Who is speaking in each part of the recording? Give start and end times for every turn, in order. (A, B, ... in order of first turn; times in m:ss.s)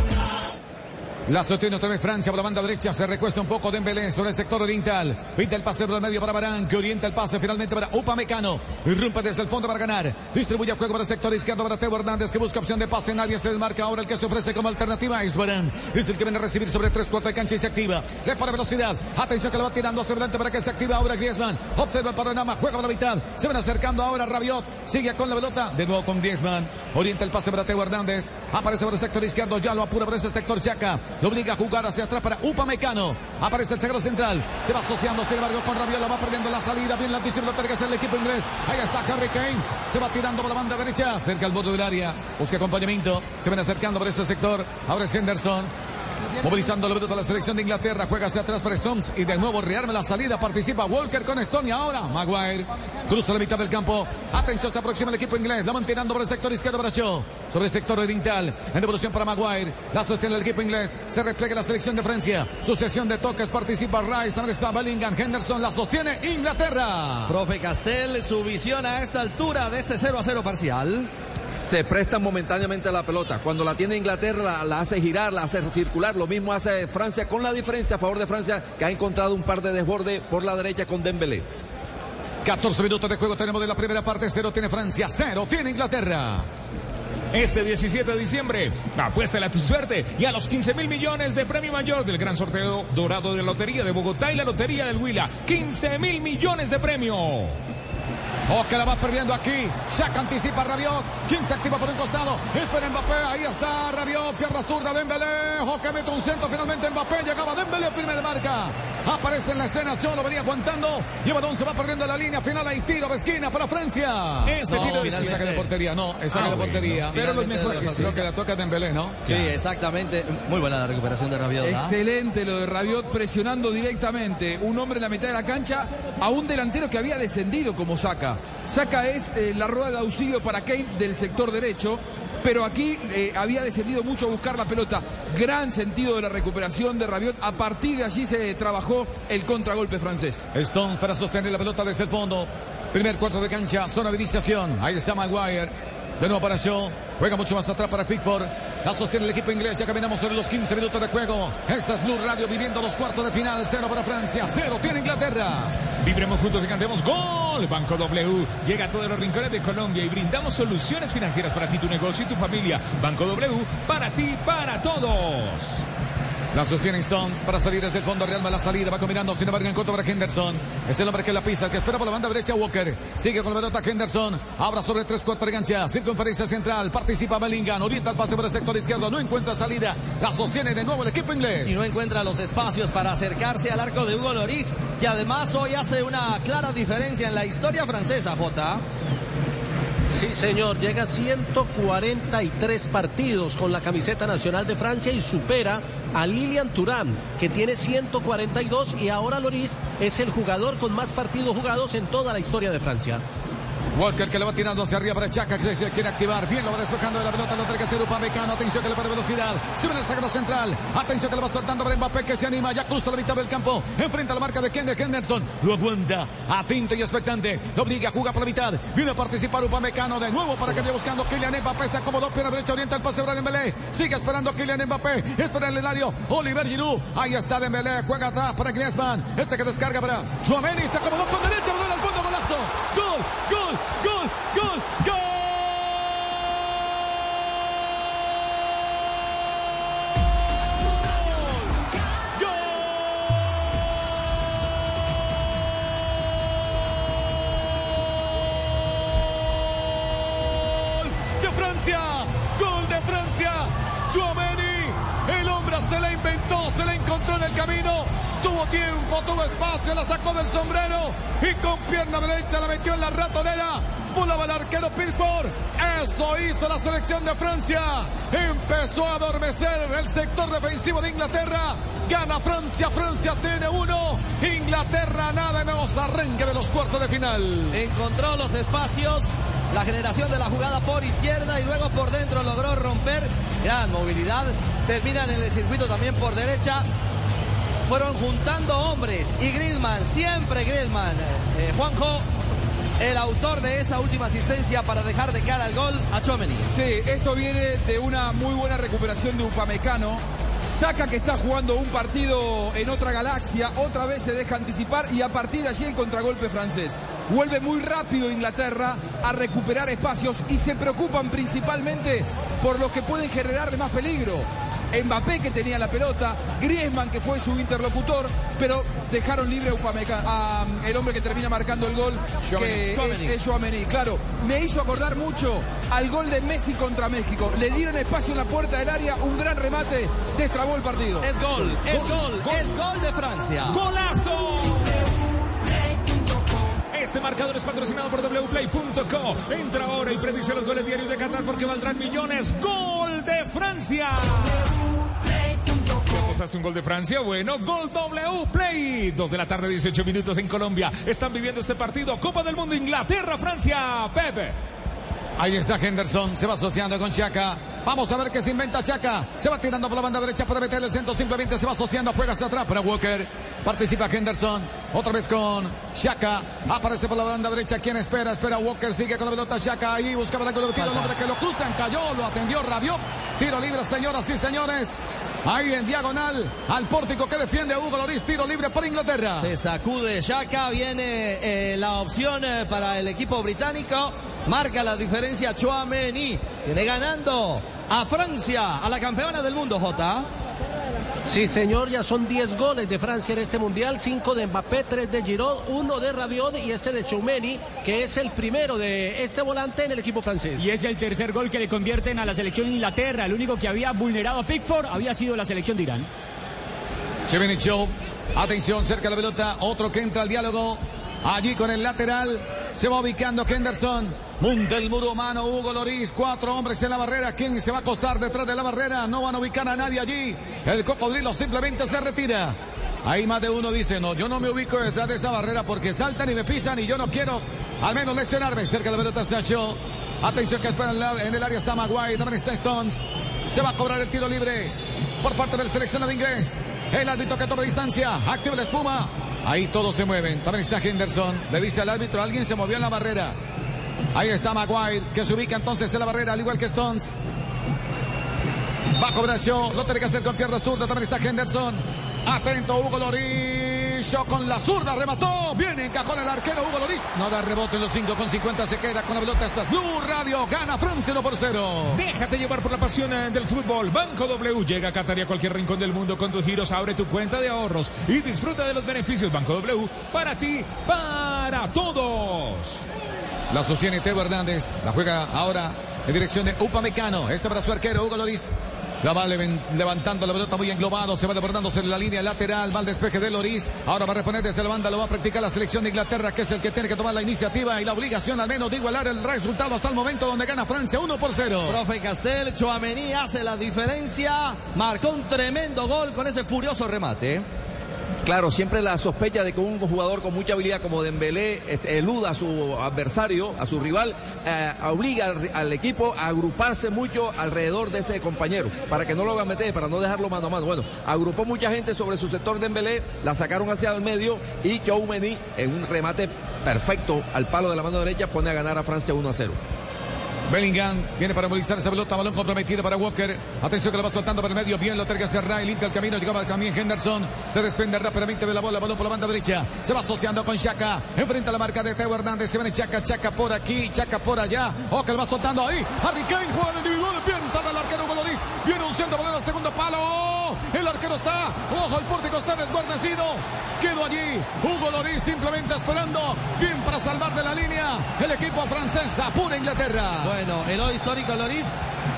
0:01.3-0:45.7 A
0:46.4-1:07.3 A
1:07.3-1:11.1 B
1:11.5-1:21.4 C
1:22.4-1:26.5 A
1:27.3-1:37.6 D
1:38.5-1:59.3 A
1:54.4-1:55.7 D
1:54.7-1:55.6 B
1:56.3-1:58.2 D
1:57.1-1:58.2 B
1:59.2-2:01.9 B
1:59.2-1:59.6 D
2:01.6-2:20.4 E
2:20.5-2:35.8 A
2:36.0-2:45.8 D
2:46.5-3:01.8 A
3:01.6-3:08.8 B
3:10.1-3:23.2 F
3:23.9-3:56.5 A
4:01.1-4:01.7 A
4:02.3-4:03.3 A
4:08.3-4:37.8 A
4:37.7-4:46.8 B
4:47.9-4:52.2 B
4:53.0-4:56.7 B
4:56.7-5:31.3 E
5:22.4-5:23.3 B
5:31.2-5:33.8 B
5:31.9-5:32.6 D
5:33.7-5:35.0 D
5:36.9-5:44.7 D
5:46.0-5:54.6 D
5:55.4-6:19.5 A
6:19.4-6:30.3 B
6:31.3-6:40.6 F
6:40.6-6:46.1 G
6:47.3-7:23.4 A
7:24.1-7:27.1 A
7:29.0-7:42.0 A
7:41.9-7:52.8 D
7:53.5-8:11.8 A
8:11.6-8:17.4 B
8:18.2-8:39.6 C
8:40.5-9:10.3 A
9:10.2-9:11.8 B